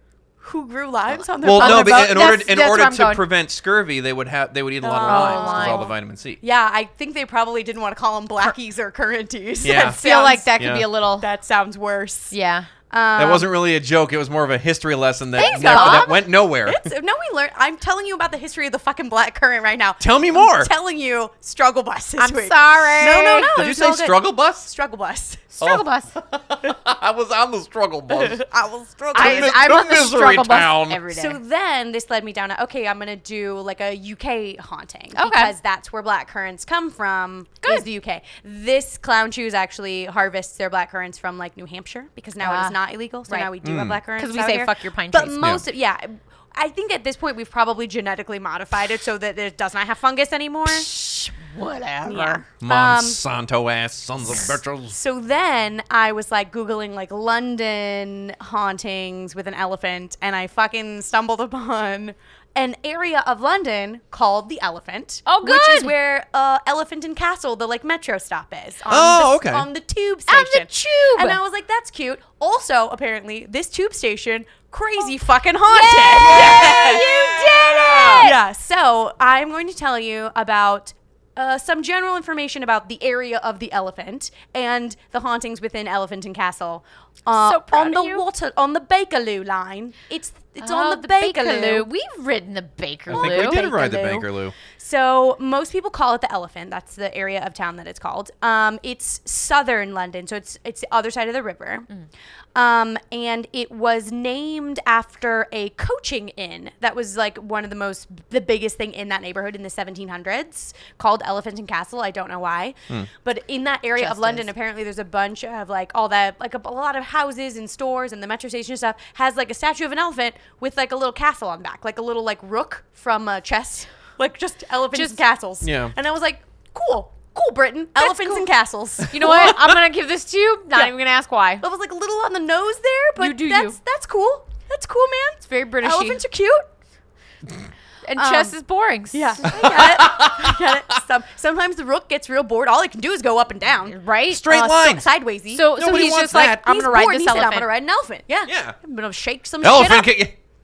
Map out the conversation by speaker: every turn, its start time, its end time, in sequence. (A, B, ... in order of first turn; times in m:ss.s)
0:00.4-0:02.4 A
0:01.1-0:03.2 B
0:01.4-0:06.4 C
0:04.8-0:12.3 A
0:05.0-0:05.9 B
0:09.6-0:10.0 C
0:09.9-0:11.3 B
0:10.6-0:10.9 C
0:12.3-0:12.7 B
0:12.9-0:13.5 A
0:13.2-0:16.9 C
0:15.4-0:16.2 B
0:15.4-0:25.5 A
0:20.0-0:20.7 C
0:22.2-0:23.5 B
0:23.6-0:24.7 C
0:25.5-0:26.1 B
0:25.6-0:28.4 C
0:28.1-0:29.7 A
0:29.1-0:31.4 B
0:29.2-0:31.0 C
0:31.1-0:50.9 A
0:35.2-0:35.5 B
0:42.4-0:42.8 B
0:43.6-0:44.0 C
0:44.2-0:45.6 B
0:50.7-0:52.4 B
0:52.0-0:53.2 A
0:52.6-0:55.0 C
0:54.9-1:31.9 A
1:05.3-1:05.9 B
1:08.9-1:09.7 C
1:10.3-1:11.4 B
1:15.7-1:18.4 B
1:27.3-1:28.2 B
1:30.6-1:33.7 B
1:33.1-1:34.6 C
1:33.1-1:41.9 A
1:42.6-2:09.7 A
1:54.0-1:54.5 B
2:04.9-2:05.2 B
2:05.6-2:05.9 C
2:08.0-2:08.5 B
2:09.1-2:11.6 B
2:09.2-2:09.6 C
2:11.6-2:16.6 A
2:13.2-2:13.8 B
2:15.5-2:16.2 B
2:18.0-2:19.6 B
2:18.2-2:18.5 A
2:19.1-2:25.7 A
2:19.5-2:20.8 C
2:23.9-2:24.5 B
2:24.3-2:25.1 C
2:25.5-2:27.7 B
2:25.8-2:26.7 C
2:26.6-2:30.1 A
2:28.5-2:28.8 C
2:29.6-2:30.4 C